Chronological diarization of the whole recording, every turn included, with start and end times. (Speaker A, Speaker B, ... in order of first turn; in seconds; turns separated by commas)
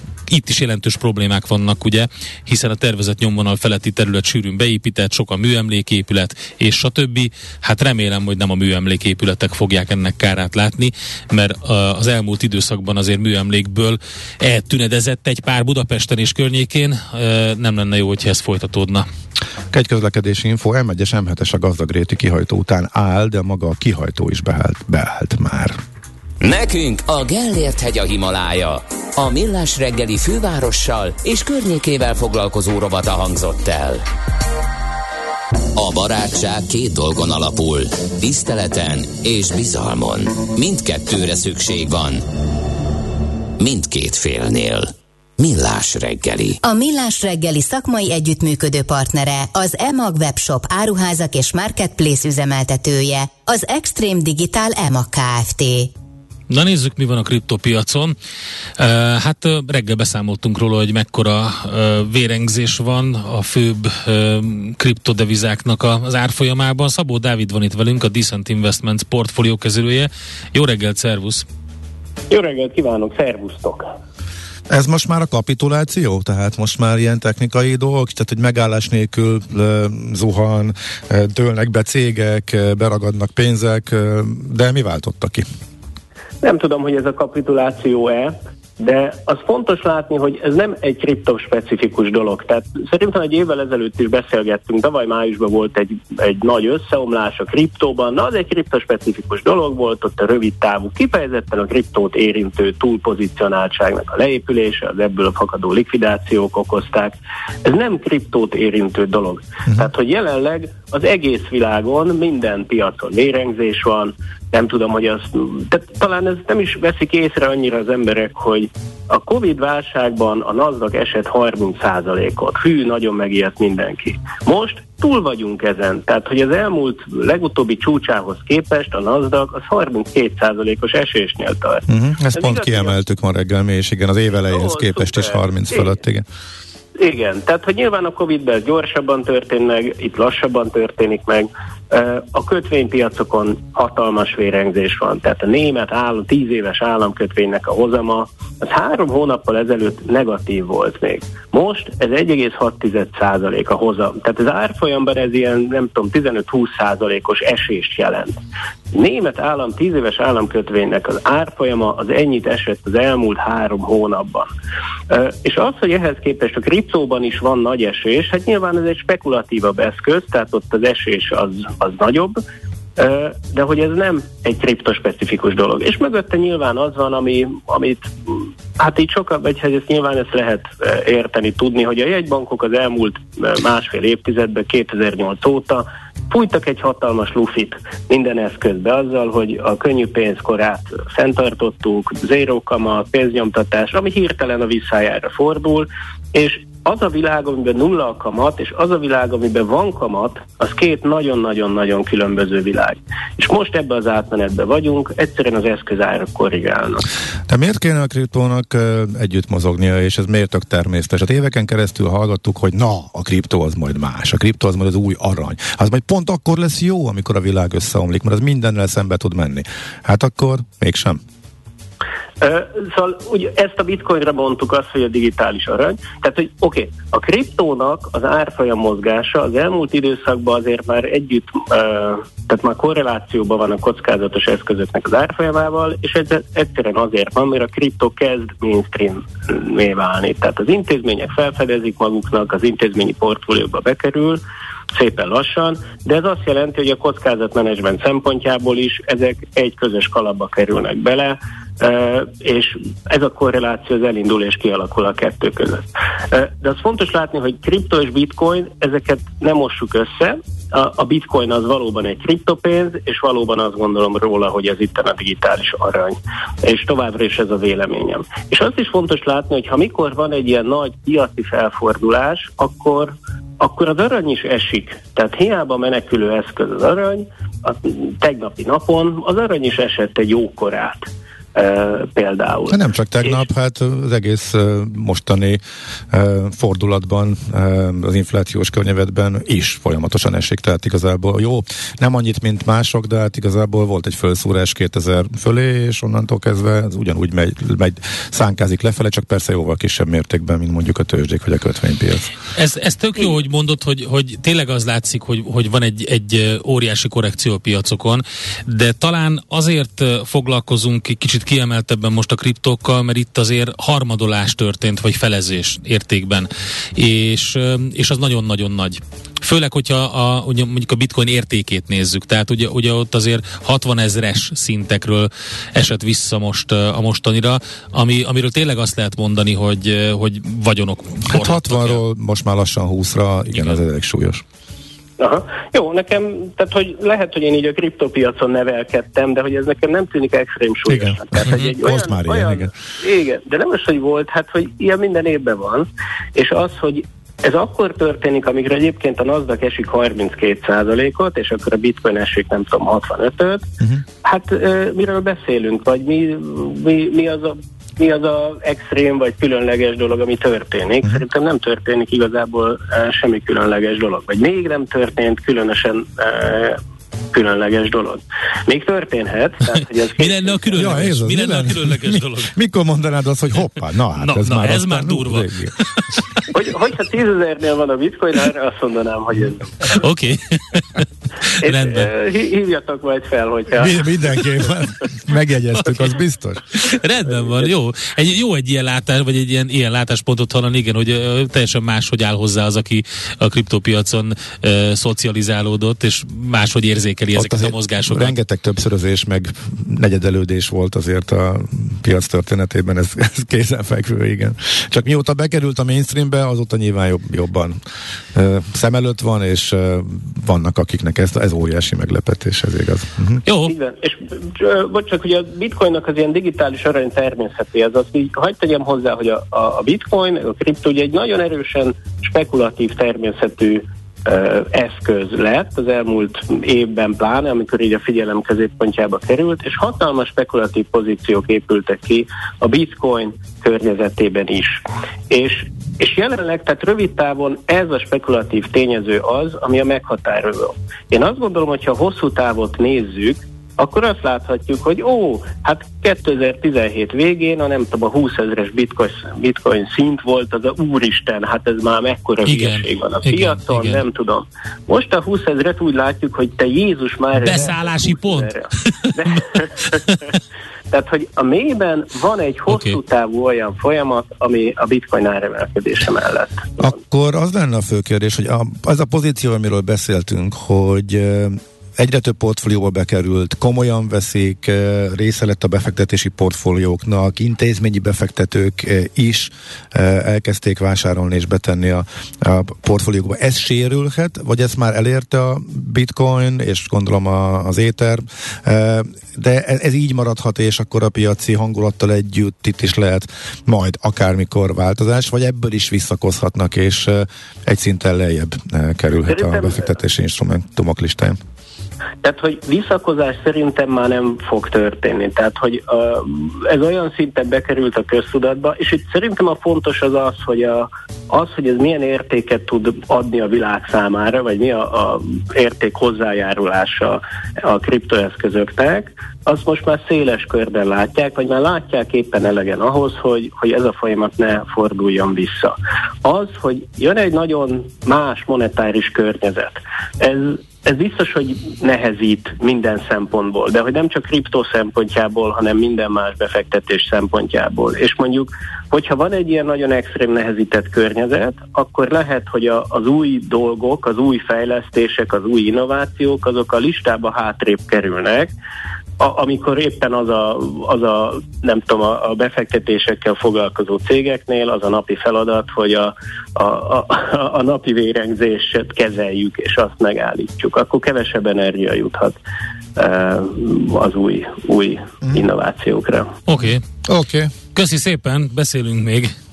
Speaker A: 0.3-19.1, Speaker B: 19.7-25.8, Speaker C: 26.4-34.0, Speaker C: 35.8-42.2, Speaker C: 43.6-46.6, Speaker D: 46.6-55.9, Speaker A: 56.5-58.1, Speaker A: 58.8-71.4, Speaker E: 72.3-73.9, Speaker B: 74.7-85.5, Speaker E: 86.4-133.0, Speaker B: 131.9-136.2, Speaker E: 134.5-135.9, Speaker E: 137.0-158.4, Speaker E: 158.9-164.5, Speaker E: 165.1-172.4, Speaker E: 173.0-207.0, Speaker B: 207.5-221.2, Speaker E: 222.4-244.4, Speaker E: 244.9-282.8, Speaker B: 282.7-302.3, Speaker A: 302.5-332.0, Speaker B: 331.3-334.4, Speaker A: 333.5-333.8, Speaker E: 335.2-353.6, Speaker B: 340.9-342.7, Speaker E: 354.2-366.8, Speaker E: 367.3-371.0, Speaker A: 370.1-372.5, Speaker B: 370.7-375.7, Speaker A: 374.2-376.2, Speaker E: 376.5-380.0, Speaker A: 379.9-382.1, Speaker E: 381.6-384.6, Speaker B: 383.7-386.6, Speaker A: 385.8-386.1, Speaker A: 386.7-398.4, Speaker B: 397.3-407.8, Speaker B: 408.3-413.4, Speaker A: 413.4-413.7, Speaker E: 413.6-460.1, Speaker A: 452.4-454.0, Speaker A: 457.3-460.2, Speaker E: 460.9-466.9, Speaker A: 462.7-463.0, Speaker B: 466.8-501.4, Speaker E: 499.3-499.9, Speaker E: 502.2-548.5, Speaker E: 549.2-562.4, Speaker E: 563.0-566.3, Speaker A: 566.5-566.8, Speaker B: 567.0-567.5, Speaker A: 567.7-569.3